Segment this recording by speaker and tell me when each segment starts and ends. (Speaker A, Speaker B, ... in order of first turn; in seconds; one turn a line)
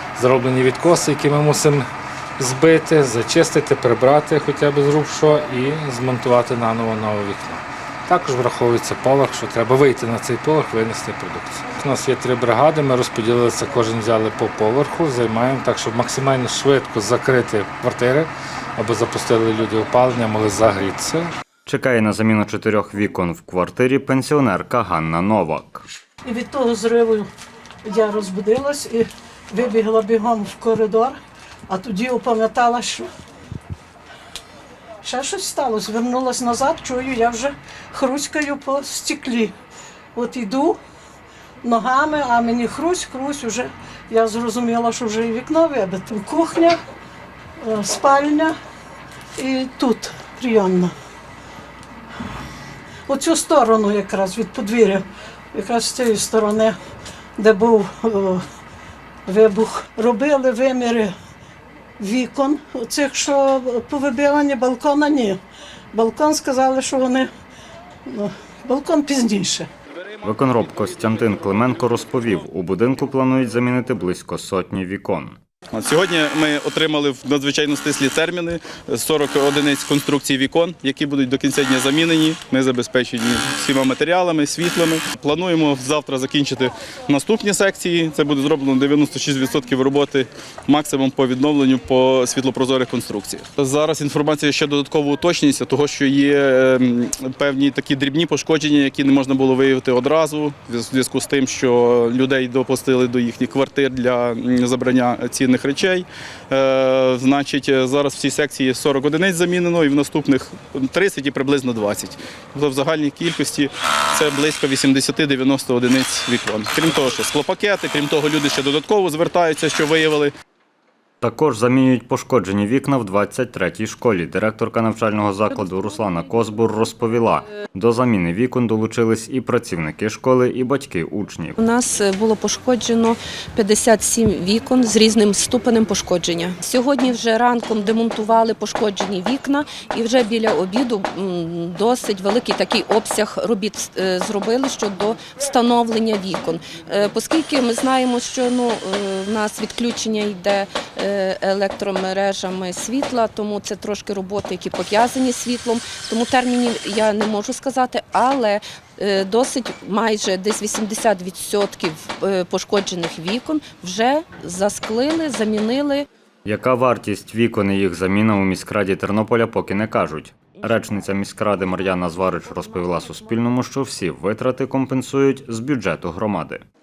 Speaker A: 0.2-1.9
Speaker A: 2.4-21.3
Speaker B: 21.6-25.8
Speaker C: 26.2-27.3
Speaker C: 27.8-31.1
Speaker C: 31.7-33.1
Speaker C: 35.0-39.5
Speaker C: 40.1-40.8
Speaker C: 41.6-46.8
Speaker C: 47.6-48.5
Speaker C: 49.4-50.9
Speaker C: 53.1-56.7
Speaker C: 57.4-58.4
Speaker C: 59.2-61.1
Speaker C: 62.0-65.4
Speaker C: 65.9-67.3
Speaker C: 68.1-69.7
Speaker B: 70.2-75.4
Speaker D: 75.7-120.3
Speaker B: 121.2-131.6
Speaker E: 131.6-166.1
Speaker B: 166.4-176.6